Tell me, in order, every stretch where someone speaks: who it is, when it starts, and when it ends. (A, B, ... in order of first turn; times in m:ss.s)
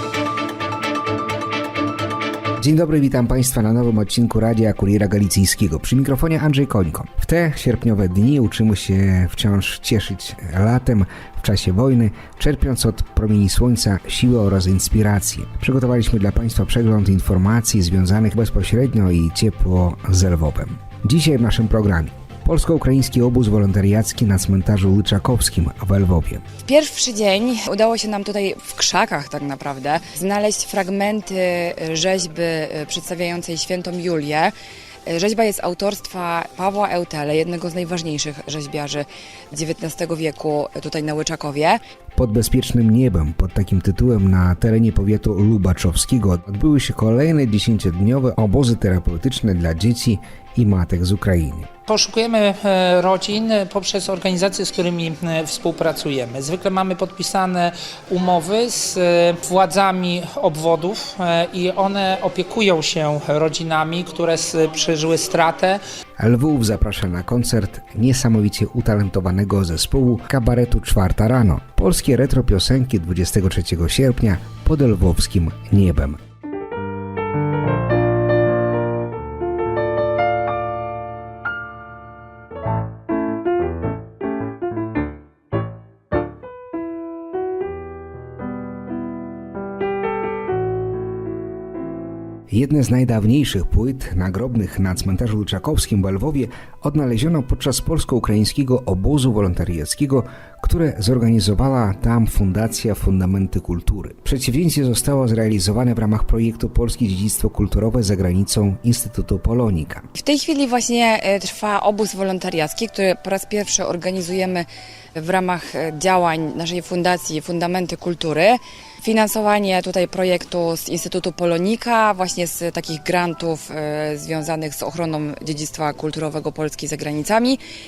0:02.6-0:26.4 A
0:26.6-0:34.5 B
0:35.0-0:41.8 B
0:42.1-0:51.7 A
0:51.9-1:05.8 C
1:06.2-1:16.2 A
1:32.5-1:50.1 A
1:50.1-2:07.6 B